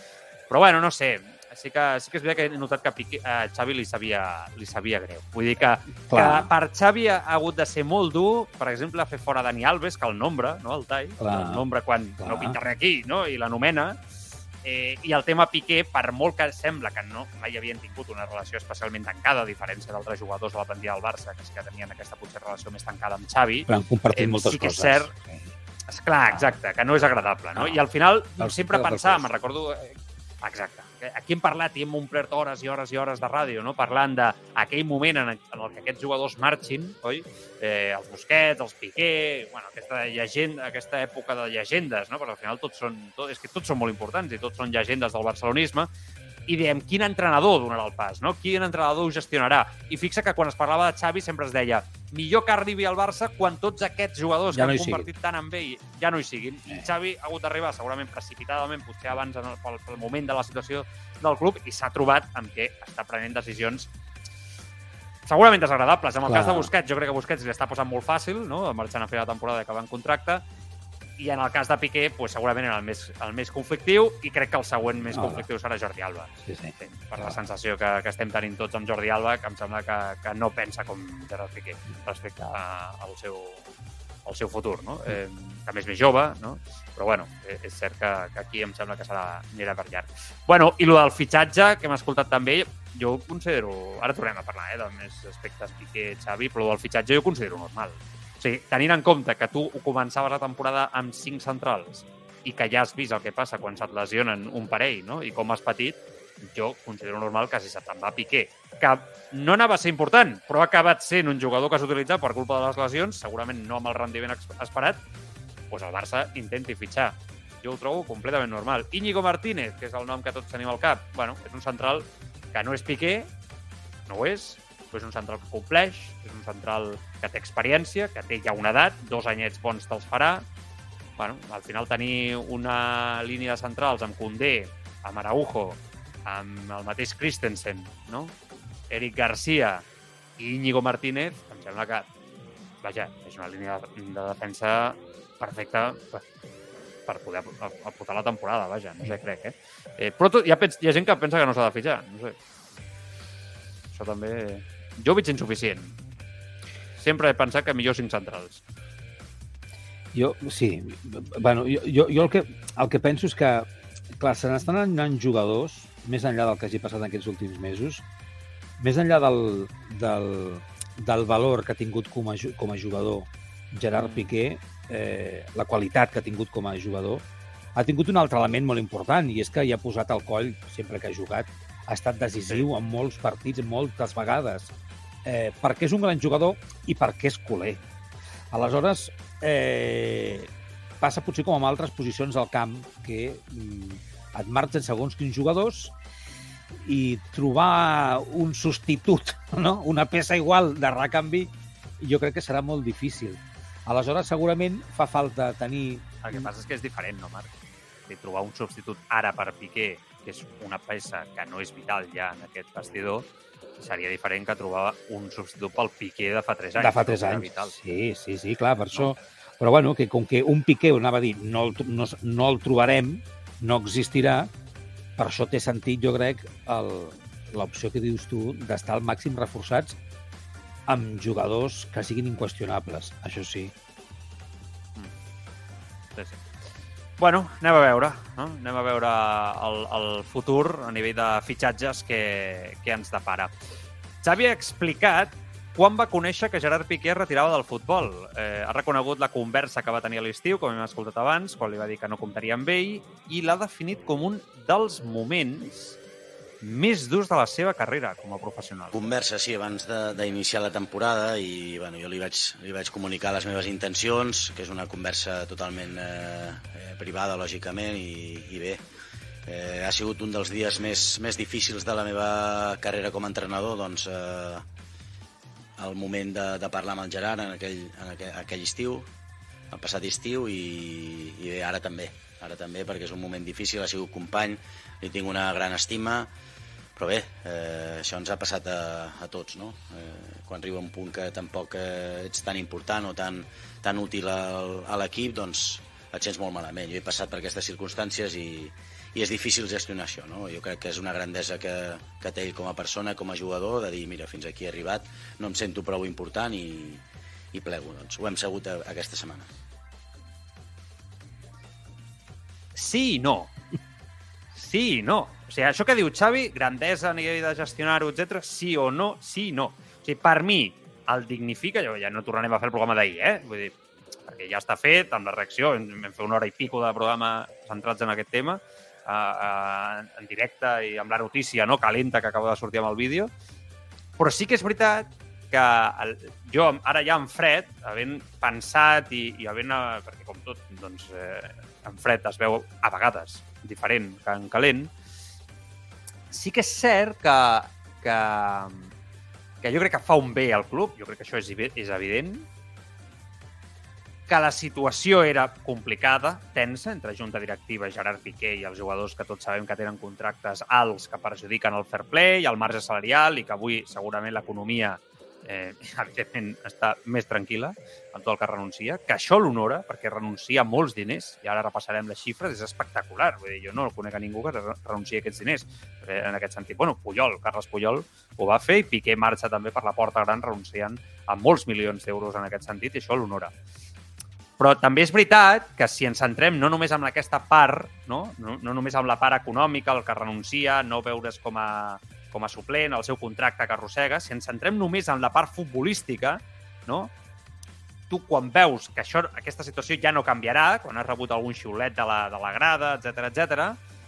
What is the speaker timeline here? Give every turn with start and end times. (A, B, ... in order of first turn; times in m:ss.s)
0:00.5-0:14.0 A
0:06.1-0:06.5 B
0:11.2-0:11.6 B
0:12.2-0:12.6 B
0:14.6-0:25.1 A
0:23.7-0:25.5 B
0:25.9-0:45.9 A
0:27.5-0:27.8 B
0:28.4-0:29.4 B
0:46.5-1:03.9 A
0:54.5-0:55.1 B
1:05.2-1:10.4 A
1:06.3-1:06.7 B
1:11.2-1:23.7 A
1:15.1-1:15.4 B
1:16.4-1:17.4 B
1:24.2-1:55.0 A
1:55.7-2:03.3 A
2:04.1-2:10.4 A
2:11.2-2:18.3 A
2:18.9-2:19.8 A
2:20.4-2:22.1 A
2:22.8-2:26.2 A
2:27.1-2:32.4 A
2:33.9-2:36.0 A
2:37.0-2:38.6 A
2:40.1-2:48.0 B
2:48.8-2:57.2 B
2:53.9-2:54.3 A
2:57.8-3:04.7 B
3:05.2-3:07.8 B
3:08.5-3:15.9 B
3:16.7-3:26.5 B
3:26.2-3:27.5 A
3:28.1-3:33.3 A
3:33.8-3:37.7 A
3:36.8-3:44.5 B
3:38.9-3:39.2 A
3:45.2-3:50.0 B
3:50.9-3:53.7 B
3:56.2-3:56.4 A
3:57.2-4:03.5 A
4:04.2-4:16.0 A
4:16.6-4:19.1 A
4:18.9-4:28.8 C
4:29.4-4:34.6 C
4:35.8-4:39.1 C
4:39.7-4:46.3 C
4:47.0-5:07.0 C
5:07.5-5:09.5 C
5:12.7-5:13.5 A
5:14.5-5:33.3 A
5:34.2-5:44.9 A
5:46.3-5:48.9 A
5:49.6-5:52.5 A
5:54.3-6:23.5 A
6:24.6-6:37.1 A
6:38.1-6:43.8 A